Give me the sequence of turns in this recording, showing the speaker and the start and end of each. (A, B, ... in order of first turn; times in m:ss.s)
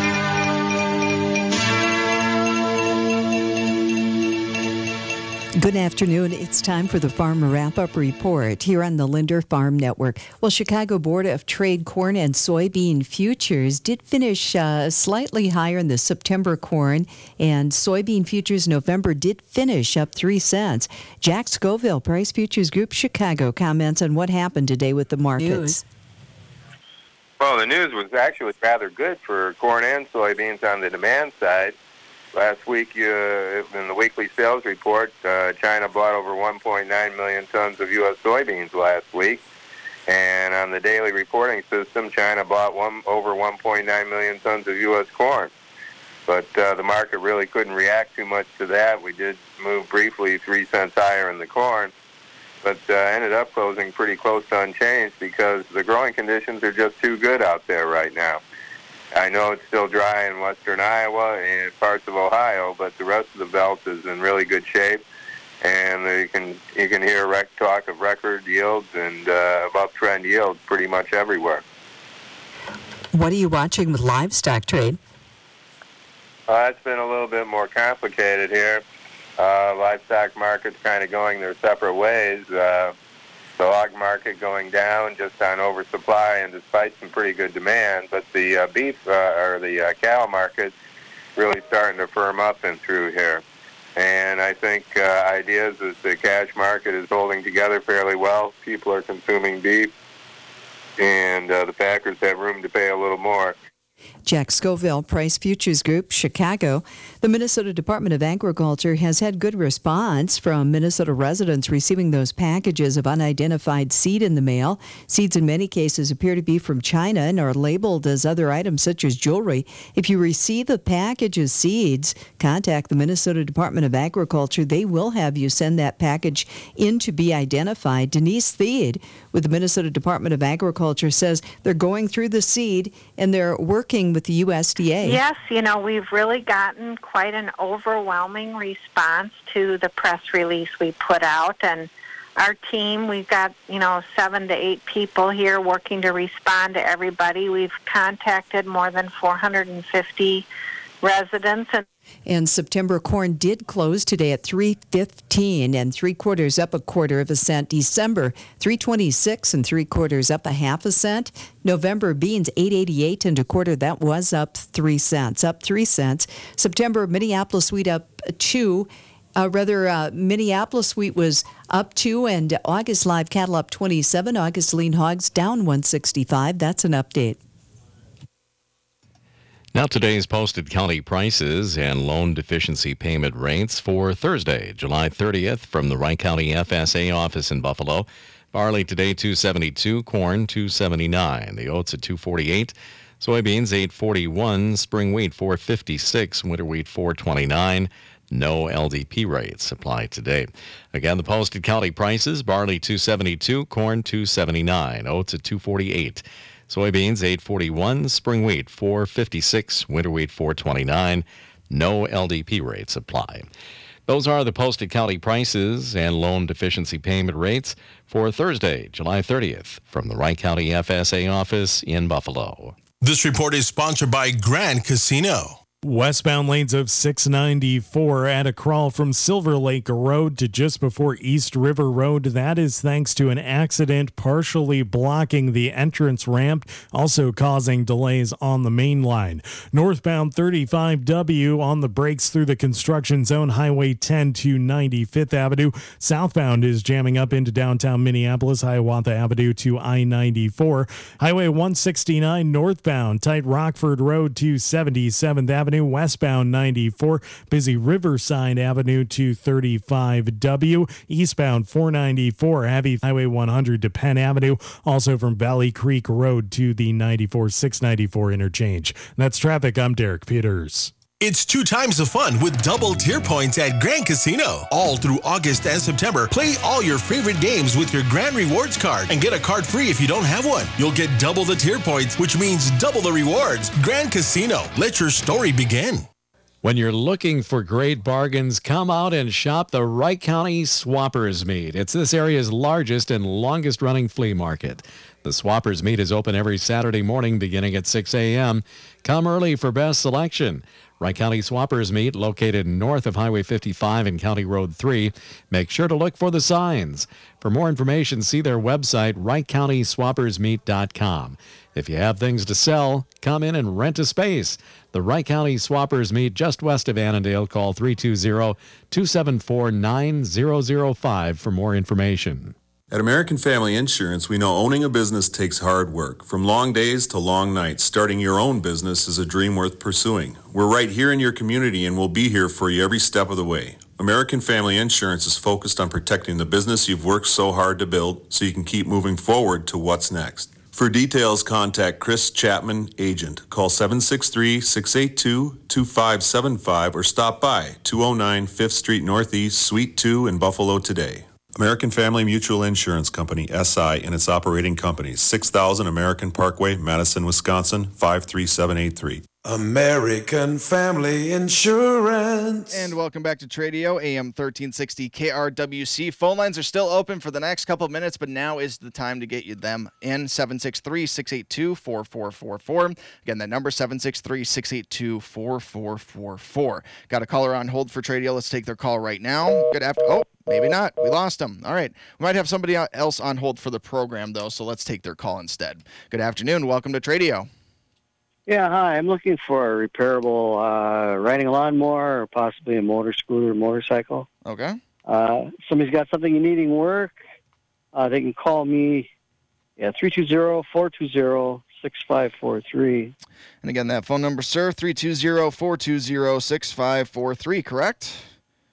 0:05.6-0:25.8 A
0:27.4-0:31.8 B
0:32.3-0:39.4 B
0:40.1-0:45.5 B
0:46.3-0:51.9 B
0:52.6-0:58.4 B
0:59.1-1:05.0 B
1:05.6-1:11.6 B
1:13.1-1:15.0 A
1:16.5-1:18.8 B
1:19.4-1:22.9 B
1:23.6-1:30.7 B
1:31.4-1:33.4 B
1:34.0-1:39.9 B
1:41.0-1:43.6 B
1:44.2-2:15.2 A
2:15.0-2:30.4 C
2:31.0-2:31.8 C
2:32.2-2:57.4 A
2:59.7-3:33.5 D
3:34.1-3:42.7 D
3:43.0-3:45.6 E
3:45.8-4:30.9 F
4:31.2-4:46.1 E
4:46.6-5:22.5 D
5:22.9-5:59.3 G
5:59.4-6:02.9 H
6:02.7-6:27.5 I
6:28.5-6:34.3 J
6:34.4-6:34.8 I
6:35.0-6:37.2 J
6:37.9-6:39.1 J
6:39.8-6:43.1 J
6:43.6-6:48.3 I